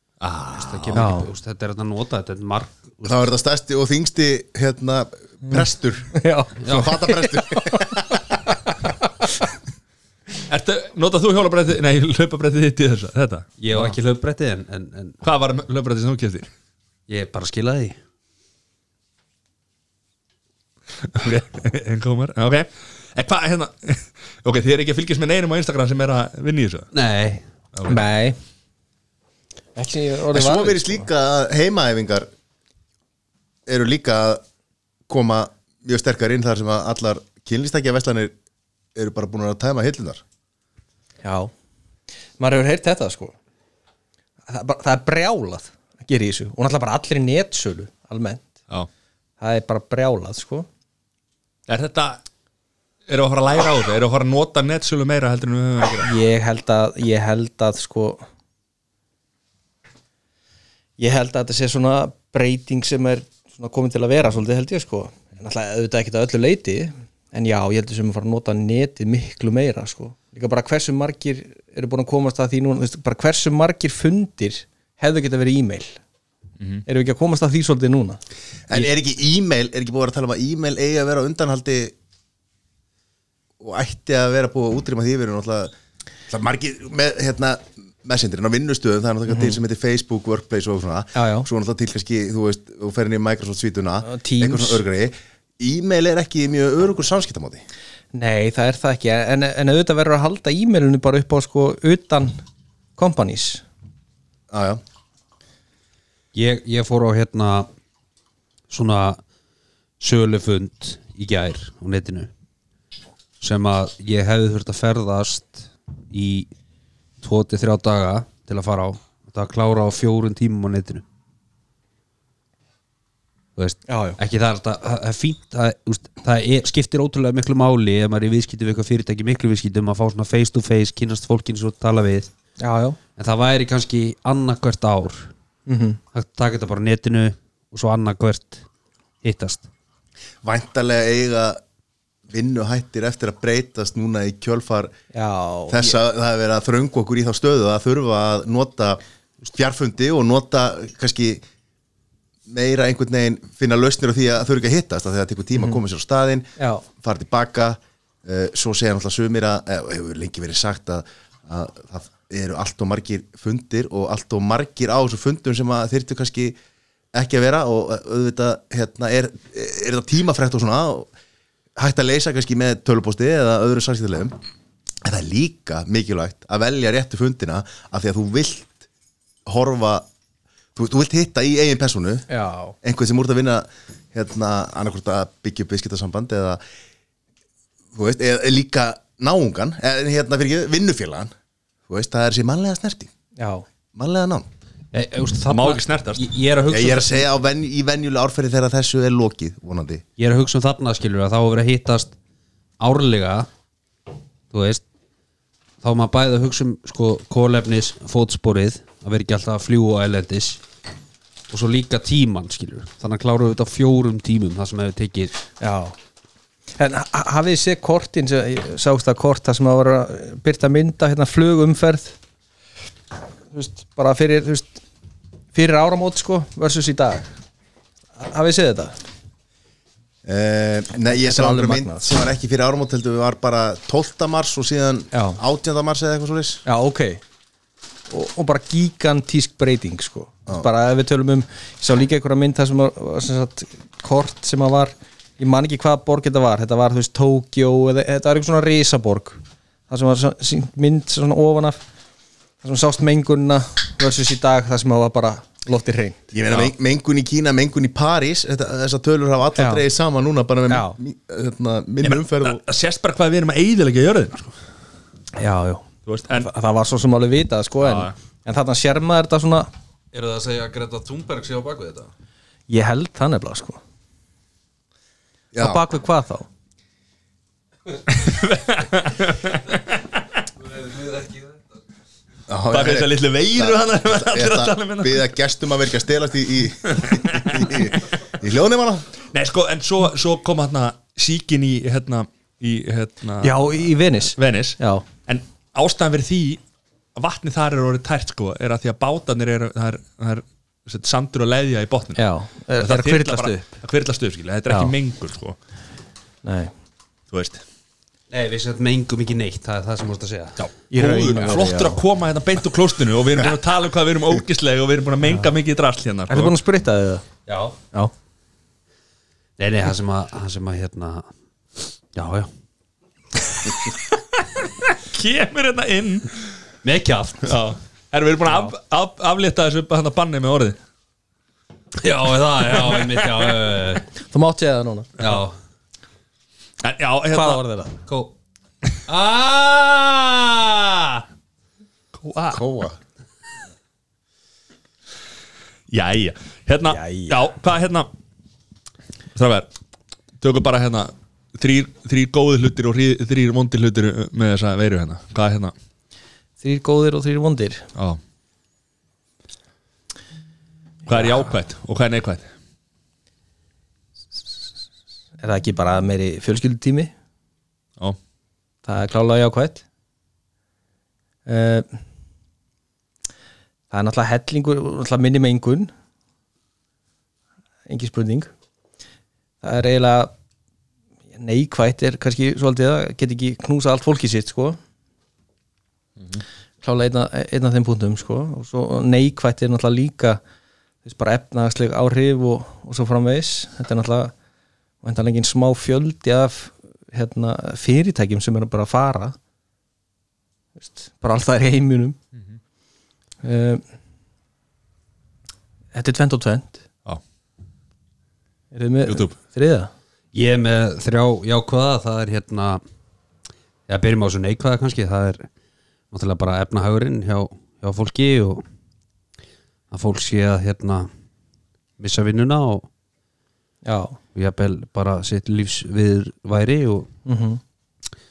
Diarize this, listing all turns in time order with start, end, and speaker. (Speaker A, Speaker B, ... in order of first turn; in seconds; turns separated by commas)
Speaker A: 0.2-1.1, Speaker B: 0.5-3.1, Speaker C: 0.9-1.3, Speaker D: 3.0-6.1, Speaker C: 6.2-8.0, Speaker B: 6.6-6.9, Speaker D: 6.6-8.2, Speaker A: 10.5-13.9, Speaker B: 13.6-15.2, Speaker A: 15.2-16.5, Speaker B: 17.1-18.0, Speaker A: 21.0-26.9, Speaker B: 26.9-27.4, Speaker A: 27.7-28.0, Speaker C: 27.9-28.4, Speaker C: 29.8-31.1, Speaker D: 30.3-32.3, Speaker D: 33.6-34.4, Speaker D: 35.1-38.3, Speaker D: 38.9-40.2, Speaker C: 41.2-41.5, Speaker C: 42.4-43.3, Speaker C: 44.5-48.5, Speaker C: 49.4-50.7, Speaker A: 51.7-52.2, Speaker A: 53.1-56.1, Speaker C: 56.0-58.2, Speaker C: 61.0-76.0, Speaker C: 76.8-78.2, Speaker D: 78.7-81.9, Speaker D: 83.6-85.7, Speaker D: 86.3-97.6, Speaker C: 89.3-89.6, Speaker C: 91.1-91.5, Speaker C: 94.0-94.8, Speaker C: 98.1-102.3, Speaker C: 103.0-103.6, Speaker D: 104.5-104.8, Speaker B: 106.3-107.7, Speaker B: 108.7-109.2, Speaker B: 110.0-112.3, Speaker B: 113.4-116.5, Speaker B: 117.2-121.0, Speaker B: 123.5-132.3, Speaker C: 123.9-124.2, Speaker C: 132.6-133.0, Speaker B: 133.2-135.3, Speaker C: 135.7-136.0, Speaker B: 136.1-138.6, Speaker B: 139.2-139.7, Speaker D: 140.4-141.6, Speaker D: 142.3-144.9, Speaker C: 145.1-145.9, Speaker D: 145.7-151.4, Speaker D: 152.5-166.6, Speaker C: 156.6-156.8, Speaker D: 167.1-171.1, Speaker D: 171.8-174.3, Speaker D: 175.0-178.8, Speaker D: 179.5-180.1, Speaker D: 180.8-182.3, Speaker C: 182.3-182.7, Speaker D: 182.8-186.6, Speaker D: 187.9-191.3, Speaker D: 191.9-193.1, Speaker C: 193.4-193.7, Speaker D: 193.9-194.5, Speaker B: 194.9-197.2, Speaker A: 195.5-196.2, Speaker D: 196.7-200.0, Speaker B: 200.2-202.1, Speaker B: 202.8-203.5, Speaker B: 204.5-204.8, Speaker B: 205.8-210.6, Speaker B: 211.5-215.4, Speaker C: 215.6-215.9, Speaker C: 216.8-222.1, Speaker C: 223.5-224.8, Speaker C: 225.5-227.3, Speaker C: 228.2-228.9, Speaker D: 230.2-236.6, Speaker C: 231.1-232.1, Speaker C: 235.1-235.4, Speaker C: 236.7-237.2, Speaker C: 238.1-251.8, Speaker C: 252.6-256.2, Speaker D: 256.3-262.6, Speaker C: 259.6-259.8, Speaker C: 260.7-260.9, Speaker A: 262.0-264.5, Speaker C: 265.4-269.7, Speaker A: 266.1-266.5, Speaker A: 267.8-268.1, Speaker E: 270.1-272.1, Speaker C: 272.7-273.8, Speaker D: 275.5-275.8, Speaker C: 275.6-276.5, Speaker A: 278.1-280.0, Speaker E: 280.8-281.5, Speaker D: 282.5-289.1, Speaker A: 282.7-285.3, Speaker A: 287.0-288.0, Speaker A: 289.3-296.6, Speaker C: 293.4-295.0, Speaker A: 297.1-302.2, Speaker C: 302.2-303.7, Speaker A: 302.8-305.6, Speaker C: 306.4-306.7, Speaker A: 307.3-307.6, Speaker B: 308.3-310.6, Speaker A: 310.6-316.6, Speaker C: 310.9-312.0, Speaker C: 316.3-317.2, Speaker B: 317.5-317.8, Speaker B: 319.6-321.3, Speaker B: 322.1-322.5, Speaker A: 324.8-326.5, Speaker B: 326.8-327.5, Speaker A: 327.4-330.8, Speaker C: 328.5-328.7, Speaker B: 332.0-334.1, Speaker A: 332.7-333.4, Speaker C: 334.2-335.1, Speaker B: 335.2-335.5, Speaker A: 336.8-337.6, Speaker C: 337.3-337.9, Speaker B: 338.1-338.3, Speaker B: 339.1-341.2, Speaker A: 342.2-342.6, Speaker D: 342.5-342.9, Speaker A: 345.9-348.1, Speaker C: 346.9-347.4, Speaker A: 349.3-349.7, Speaker A: 350.4-355.7, Speaker C: 356.6-357.9, Speaker A: 361.1-362.4, Speaker C: 365.4-367.1, Speaker C: 368.9-369.8, Speaker C: 371.4-371.9, Speaker C: 373.9-375.9, Speaker C: 377.9-378.5, Speaker C: 379.6-380.3, Speaker C: 381.4-384.8, Speaker C: 386.8-390.4, Speaker C: 391.0-394.3, Speaker C: 395.0-399.4, Speaker C: 400.8-402.2, Speaker C: 403.4-403.8, Speaker C: 405.9-406.8, Speaker C: 408.7-409.9, Speaker A: 409.0-409.3, Speaker B: 410.3-412.8, Speaker B: 413.9-415.5, Speaker B: 416.1-418.6, Speaker B: 419.9-421.1, Speaker B: 422.0-422.9, Speaker C: 423.8-424.2, Speaker B: 424.3-427.1, Speaker C: 427.2-427.6